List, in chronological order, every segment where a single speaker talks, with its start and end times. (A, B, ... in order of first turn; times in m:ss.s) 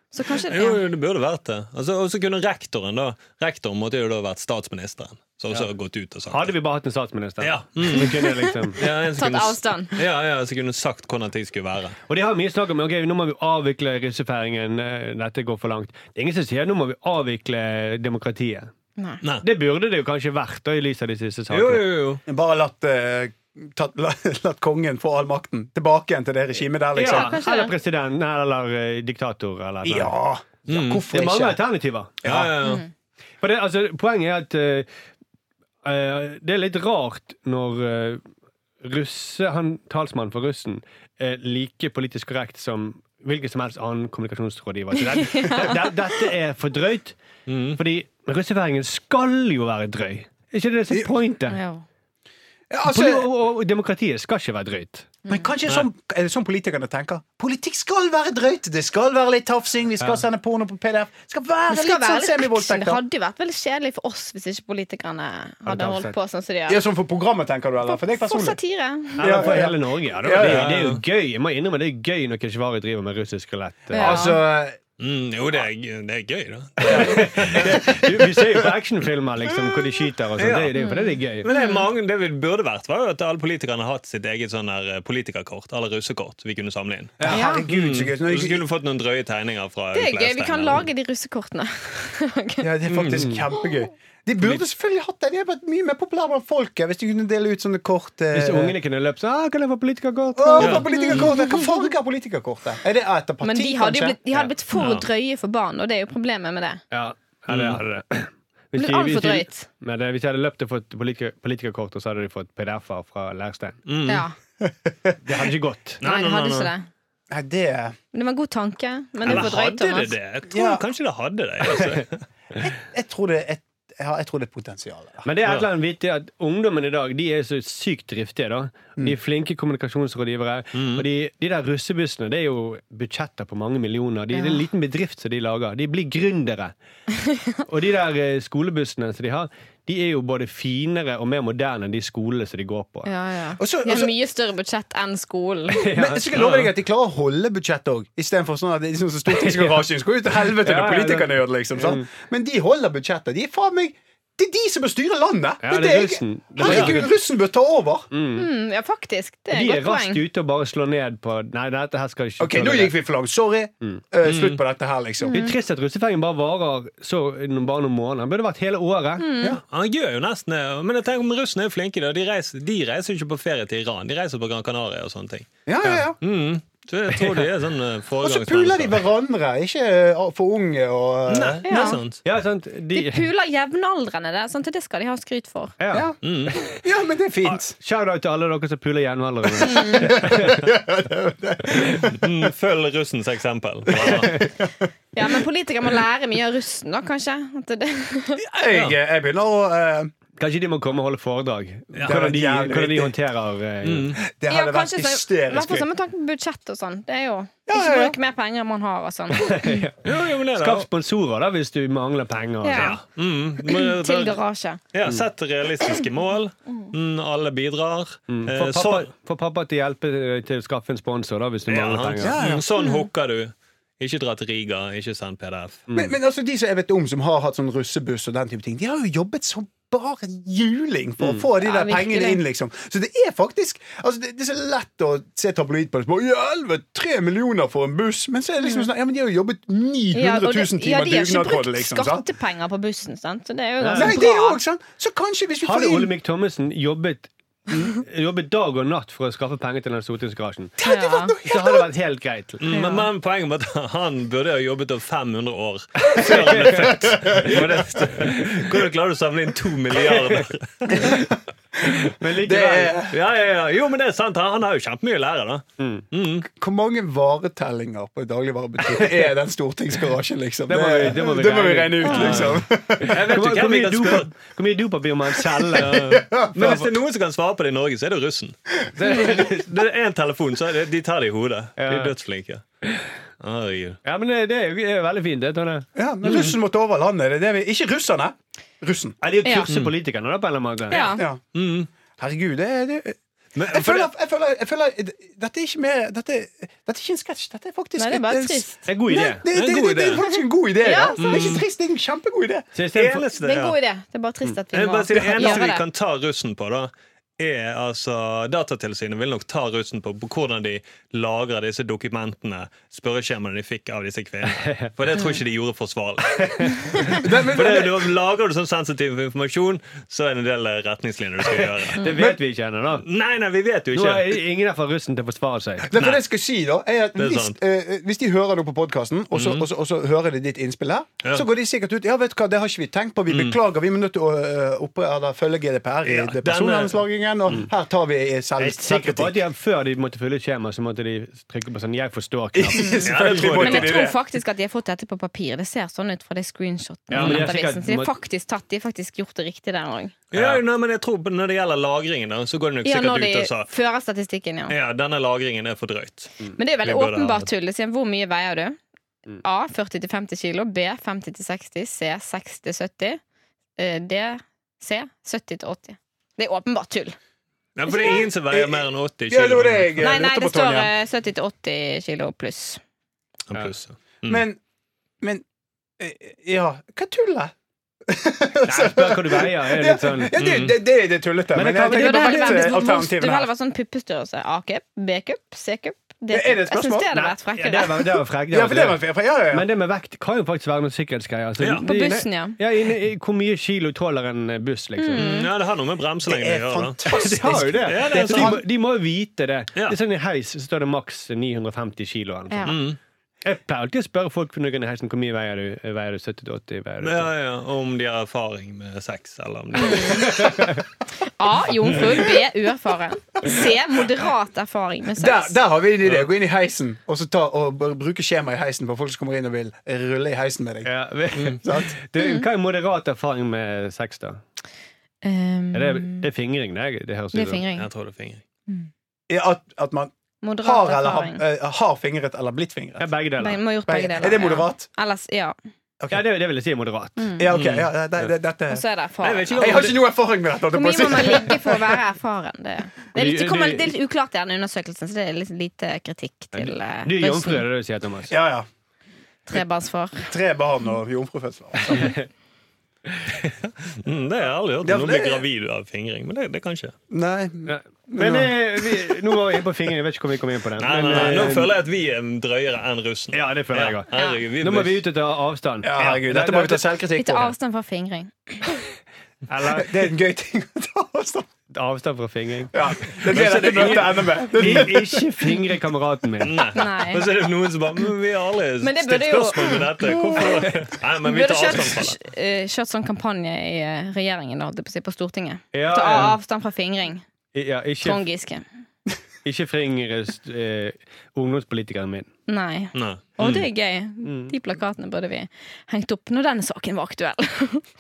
0:00.1-0:00.8 A
0:00.5-0:06.5 B
0:06.3-0:08.8 C
0:07.4-0:08.2 B
0:08.0-0:09.9 A
0:08.8-0:12.0 B
0:12.1-0:18.7 C
0:19.0-0:19.2 A
0:19.4-0:21.9 C
0:21.5-0:22.2 B
0:22.3-0:27.4 D
0:27.0-0:30.2 C
0:27.0-0:27.7 A
0:29.8-0:31.6 D
0:30.7-0:31.0 B
0:31.1-0:32.2 C
0:32.2-0:32.5 D
0:32.2-0:32.8 B
0:33.4-0:34.9 C
0:35.8-0:38.2 C
0:38.8-0:47.2 C
0:45.1-0:45.9 A
0:47.5-0:47.8 B
0:47.8-0:51.6 C
0:51.5-0:51.8 A
0:52.7-0:53.3 D
0:52.8-0:55.1 C
0:55.3-1:03.0 D
1:01.7-1:06.8 A
1:05.6-1:06.2 C
1:06.7-1:08.6 D
1:07.8-1:09.5 A
1:09.2-1:14.3 C
1:09.2-1:10.8 D
1:10.4-1:11.0 B
1:13.9-1:14.4 A
1:13.9-1:14.8 D
1:15.0-1:17.9 B
1:16.9-1:21.5 C
1:16.9-1:17.8 D
1:20.4-1:20.8 B
1:20.8-1:21.9 A
1:21.4-1:30.9 B
1:27.2-1:28.6 D
1:27.3-1:27.7 A
1:29.9-1:32.7 A
1:32.6-1:38.8 D
1:32.9-1:33.3 B
1:33.2-1:33.4 C
1:38.3-1:40.8 C
1:40.4-1:44.2 D
1:40.6-1:41.9 A
1:40.6-1:40.9 B
1:43.4-1:46.8 A
1:44.8-1:45.1 B
1:46.9-1:53.8 C
1:47.5-1:47.8 B
1:48.8-1:49.7 A
1:53.9-1:54.3 B
1:54.1-1:54.4 A
1:54.6-1:55.2 D
1:55.2-1:56.0 C
1:56.0-1:56.7 B
1:56.0-1:56.9 A
1:57.3-1:58.0 D
1:58.1-2:00.2 A
1:59.2-2:02.2 B
2:00.5-2:00.8 D
2:02.6-2:05.3 D
2:05.2-2:16.7 C
2:10.8-2:11.0 B
2:14.3-2:14.6 A
2:17.7-2:23.1 C
2:23.0-2:25.9 A
2:23.6-2:24.2 D
2:25.7-2:26.2 C
2:25.9-2:38.1 D
2:26.3-2:26.7 B
2:29.3-2:29.8 C
2:30.3-2:32.1 C
2:35.6-2:37.1 C
2:36.6-2:37.0 B
2:38.1-2:38.5 C
2:38.4-2:40.2 A
2:39.5-2:43.0 C
2:42.4-2:45.4 D
2:44.2-2:44.6 B
2:45.2-2:45.5 A
2:45.3-2:49.3 C
2:49.2-2:49.6 A
2:49.7-2:59.0 B
2:55.7-2:56.2 D
2:57.1-2:57.5 C
2:58.2-3:01.7 D
3:01.3-3:02.2 B
3:01.6-3:02.0 A
3:02.2-3:03.3 C
3:02.9-3:05.8 A
3:05.8-3:06.1 C
3:05.9-3:07.8 D
3:06.2-3:06.6 B
3:07.8-3:10.6 C
3:09.6-3:10.2 A
3:09.8-3:12.3 D
3:12.1-3:14.4 B
3:13.9-3:14.8 D
3:15.1-3:18.4 A
3:18.4-3:20.1 D
3:18.7-3:19.0 B
3:20.4-3:24.2 C
3:22.0-3:23.2 D
3:23.8-3:24.2 B
3:24.2-3:25.9 D
3:24.5-3:29.8 A
3:27.7-3:28.2 D
3:29.3-3:33.0 C
3:30.0-3:30.9 B
3:32.6-3:33.0 A
3:32.8-3:34.4 B
3:33.6-3:34.8 A
3:34.9-3:39.1 B
3:38.3-3:42.4 C
3:41.7-3:45.8 B
3:42.2-3:42.7 D
3:42.8-3:43.0 A
3:45.9-3:46.2 C
3:45.9-4:02.3 D
3:51.6-3:52.4 A
3:58.6-3:58.9 A
4:00.1-4:04.6 A
4:03.8-4:04.2 C
4:03.9-4:06.1 D
4:05.6-4:10.8 C
4:10.8-4:11.9 D
4:10.8-4:11.4 A
4:11.4-4:12.8 C
4:12.6-4:21.2 B
4:12.7-4:13.1 A
4:16.2-4:18.6 C
4:16.3-4:17.8 D
4:20.1-4:20.4 C
4:20.9-4:23.2 D
4:21.8-4:23.0 C
4:23.1-4:26.5 B
4:25.8-4:26.1 C
4:26.5-4:33.2 D
4:28.9-4:29.3 C
4:30.7-4:36.0 C
4:32.1-4:34.3 B
4:35.4-4:36.9 D
4:35.8-4:38.6 B
4:39.0-4:39.7 C
4:39.1-4:42.6 B
4:41.8-4:42.1 C
4:43.4-4:44.0 B
4:44.0-4:45.9 C
4:46.0-4:49.2 D
4:46.2-4:46.6 B
4:49.2-4:51.1 C
4:49.4-4:49.7 A
4:49.7-4:49.9 B
4:50.9-4:51.2 A
4:50.9-4:51.9 B
4:52.2-5:02.7 D
4:53.6-4:54.1 B
4:58.0-4:58.9 A
4:58.9-4:59.4 C
4:59.5-5:00.2 B
5:00.2-5:01.6 A
5:01.2-5:01.6 B
5:02.8-5:03.2 C
5:02.9-5:03.8 B
5:03.4-5:05.8 A
5:04.7-5:22.1 B
5:05.1-5:05.6 D
5:14.4-5:14.9 C
5:16.4-5:17.2 C
5:17.1-5:18.1 D
5:21.5-5:23.0 C
5:22.1-5:22.4 D
5:23.0-5:24.4 B
5:23.9-5:25.9 C
5:25.9-5:39.4 D
5:26.0-5:26.2 B
5:27.2-5:27.6 B
5:29.3-5:29.7 B
5:33.3-5:33.6 B
5:36.0-5:37.0 B
5:38.6-5:43.0 C
5:42.6-5:44.2 D
5:42.8-5:50.2 A
5:43.0-5:44.0 B
5:47.1-5:48.1 C
5:47.2-5:47.5 B
5:50.3-5:53.7 B
5:52.8-5:54.8 A
5:54.7-5:57.5 B
5:56.5-5:58.8 A
5:59.4-6:03.2 A
6:03.8-6:07.2 A
6:07.8-6:10.0 B
6:08.5-6:10.9 D
6:10.0-6:12.8 A
6:13.5-6:14.4 B
6:14.2-6:14.6 D
6:16.0-6:17.5 D
6:18.1-6:23.5 D
6:18.6-6:20.4 C
6:20.4-6:20.8 B
6:21.5-6:22.8 C
6:21.9-6:28.2 A
6:26.3-6:27.1 D
6:27.1-6:35.3 C
6:28.5-6:29.7 D
6:31.6-6:31.8 B
6:31.8-6:32.6 A
6:35.0-6:35.5 A
6:35.1-6:37.0 B
6:36.3-6:38.6 D
6:37.1-6:42.8 C
6:37.9-6:38.6 B
6:42.5-6:42.8 A
6:42.7-6:43.0 B
6:43.4-6:47.3 C
6:47.0-6:50.6 B
6:49.8-6:50.7 A
6:51.2-6:55.6 A
6:55.2-7:00.9 D
7:00.8-7:04.4 C
7:01.5-7:02.0 D
7:02.2-7:02.4 A
7:05.2-7:06.3 A
7:05.7-7:07.6 C
7:07.3-7:07.9 A
7:07.7-7:08.4 B
7:09.3-7:13.1 D
7:10.4-7:11.4 A
7:13.0-7:13.6 C
7:13.4-7:15.6 A
7:13.9-7:14.9 D
7:16.1-7:17.3 C
7:17.2-7:17.5 A
7:17.4-7:18.8 D
7:17.5-7:17.9 B
7:18.7-7:19.9 A
7:19.2-7:20.0 B
7:19.6-7:22.0 D
7:20.7-7:27.6 A
7:23.2-7:23.9 C
7:26.5-7:28.3 C
7:28.3-7:28.7 D
7:29.5-7:30.3 A
7:30.2-7:32.2 D
7:31.9-7:32.3 C
7:33.8-7:37.0 B
7:34.8-7:35.4 D
7:37.1-7:39.0 D
7:37.7-7:41.7 C
7:40.8-7:45.0 B
7:43.3-7:46.9 C
7:44.1-7:44.4 A
7:45.8-7:47.5 D
7:47.2-7:48.6 A
7:49.5-7:50.1 C
7:49.6-7:51.5 D
7:51.7-7:53.8 C
7:52.7-7:55.5 D
7:53.2-7:54.9 B
7:54.6-7:56.7 C
7:56.4-8:02.2 B
7:56.7-7:57.3 A
7:58.8-8:00.7 A
8:01.2-8:07.2 A
8:05.7-8:06.4 C
8:07.5-8:08.2 C
8:08.0-8:08.6 A
8:09.4-8:12.3 C
8:12.5-8:17.9 A
8:12.9-8:13.7 B
8:14.2-8:14.5 C